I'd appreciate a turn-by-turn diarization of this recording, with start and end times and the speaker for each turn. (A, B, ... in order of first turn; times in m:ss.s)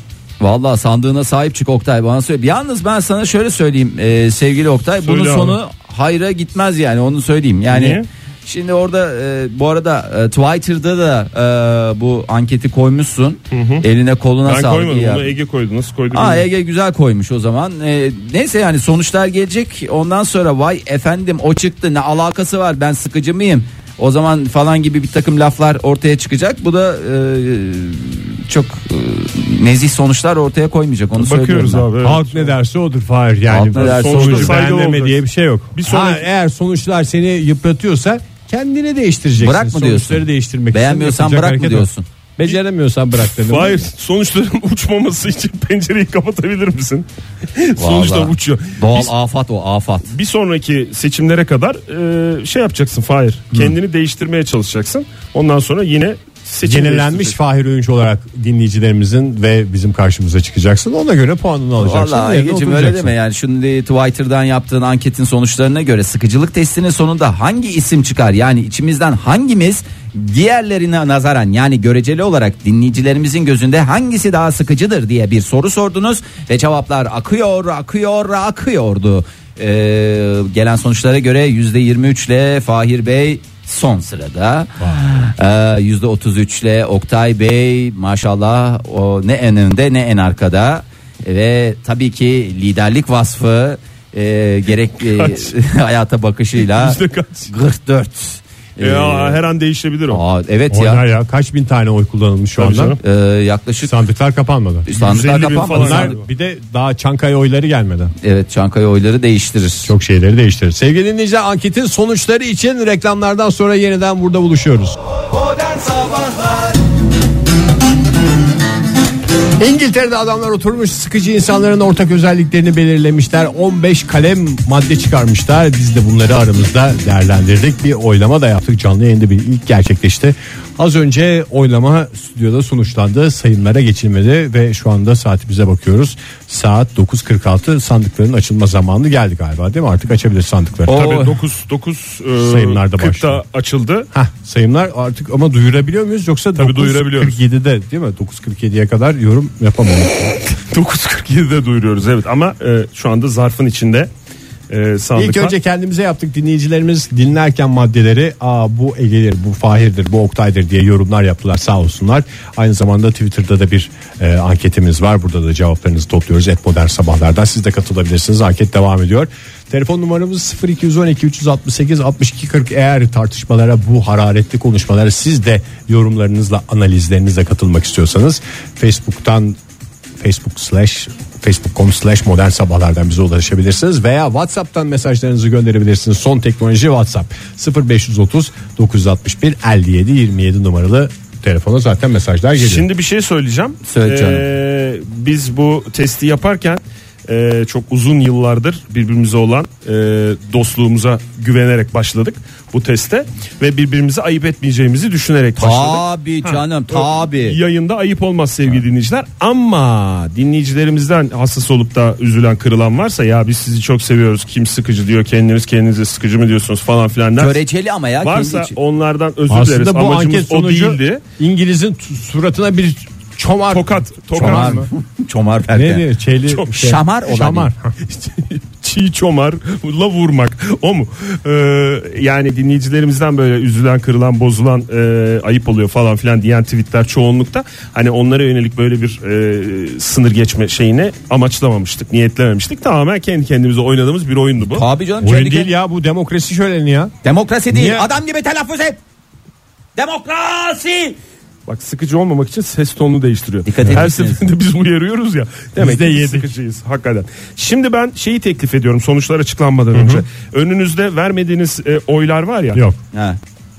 0:00.4-0:15.3 A
0:05.0-0:05.6 B
0:07.7-0:08.0 B
0:13.5-0:13.8 B
0:14.4-0:16.5 B
0:16.1-0:31.9 A
0:31.2-0:32.5 B
0:32.0-0:43.9 C
0:33.5-0:34.6 A
0:33.7-0:35.2 B
0:35.7-0:36.2 B
0:39.4-0:42.0 A
0:43.2-0:49.1 B
0:47.8-0:50.1 A
0:50.1-0:57.4 B
0:56.6-1:03.1 C
1:01.8-1:39.4 A
1:35.0-1:35.5 B
1:36.6-1:37.5 B
1:38.8-1:40.2 B
1:40.1-1:41.0 A
1:40.7-1:43.0 C
1:42.6-1:43.0 B
1:43.0-1:43.9 A
1:43.8-1:44.9 C
1:44.8-1:46.1 A
1:44.9-1:46.2 B
1:45.7-1:48.1 C
1:48.2-1:49.9 A
1:49.8-1:55.0 C
1:55.5-1:56.6 A
1:59.6-2:21.3 C
2:20.9-2:24.1 B
2:20.9-2:21.3 A
2:22.4-2:23.4 C
2:24.1-2:30.3 C
2:26.6-2:27.4 B
2:30.5-2:34.1 B
2:34.7-2:35.5 B
2:35.2-2:59.6 C
3:00.2-3:12.9 C
3:12.6-3:37.6 B
3:13.8-3:14.5 A
3:25.6-3:27.6 A
3:37.4-3:38.7 A
3:38.2-3:41.2 B
3:39.5-3:44.9 C
3:43.7-3:44.9 B
3:44.3-3:46.0 A
3:45.7-3:47.9 C
3:46.7-3:47.7 A
3:48.0-4:04.8 B
4:04.6-4:05.7 A
4:05.2-4:07.1 C
4:07.2-4:09.0 A
4:07.7-4:08.1 C
4:10.0-4:11.2 A
4:11.7-4:22.8 B
4:13.6-4:14.5 A
4:15.8-4:16.5 C
4:19.9-4:20.2 C
4:22.7-4:23.0 C
4:23.1-4:23.4 A